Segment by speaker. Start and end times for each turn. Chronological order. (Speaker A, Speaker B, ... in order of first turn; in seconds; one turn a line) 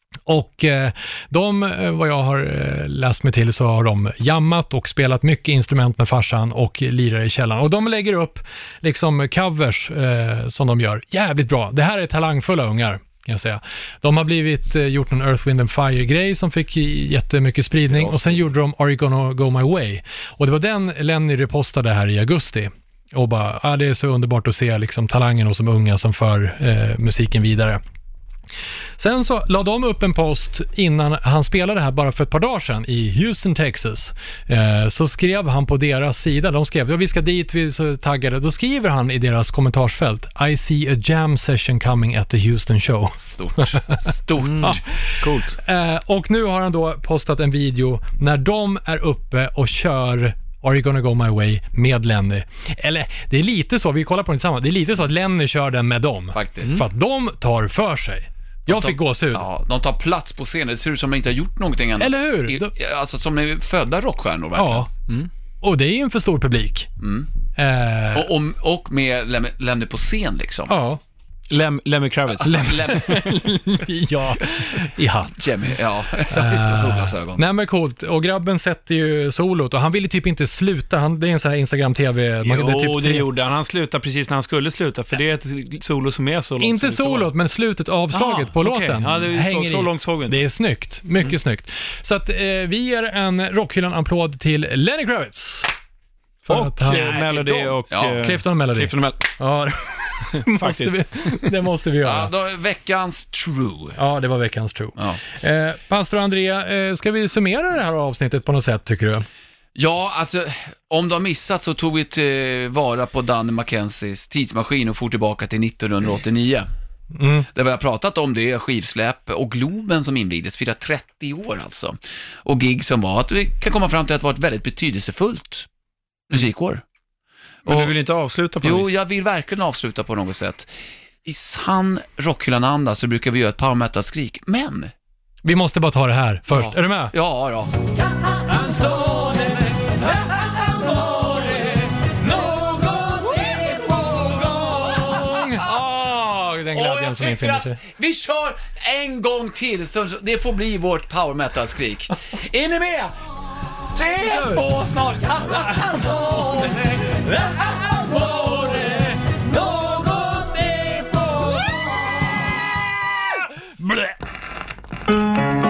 Speaker A: 0.3-27.8
Speaker B: 17.9-18.5
Speaker A: 29.0-44.1
Speaker B: 43.2-44.8
Speaker C: 44.4-45.5
Speaker A: 44.6-59.5
Speaker B: 56.3-56.9
Speaker B: 58.7-64.9
Speaker A: 62.0-62.7
Speaker A: 64.6-64.9
Speaker A: 65.6-66.9
Speaker B: 67.0-67.3
Speaker A: 67.6-68.3
Speaker B: 68.1-70.7
Speaker A: 70.7-71.0
Speaker C: 71.5-73.1
Speaker A: 72.4-75.5
Speaker B: 72.4-73.3
Speaker B: 75.4-77.5
Speaker A: 76.3-83.3
Speaker C: 82.4-87.3
Speaker A: 86.6-95.7
Speaker C: 88.1-90.5
Speaker A: 96.5-97.3
Speaker C: 96.5-99.3
Speaker B: 96.9-98.2
Speaker A: 98.2-102.3
Speaker C: 100.4-101.5
Speaker B: 102.0-104.0
Speaker A: 104.0-109.3
Speaker B: 105.0-105.2
Speaker B: 109.8-116.7
Speaker A: 117.1-117.5
Speaker B: 117.5-125.7
Speaker B: 126.3-126.8
Speaker B: 127.7-127.9
Speaker C: 127.7-128.9
Speaker B: 128.6-130.7
Speaker B: 131.2-134.9
Speaker A: 135.4-137.1
Speaker B: 136.5-137.7
Speaker B: 138.4-145.6
Speaker A: 145.0-147.8
Speaker B: 146.7-153.1
Speaker B: 153.9-157.3
Speaker A: 154.2-154.6
Speaker A: 157.6-159.2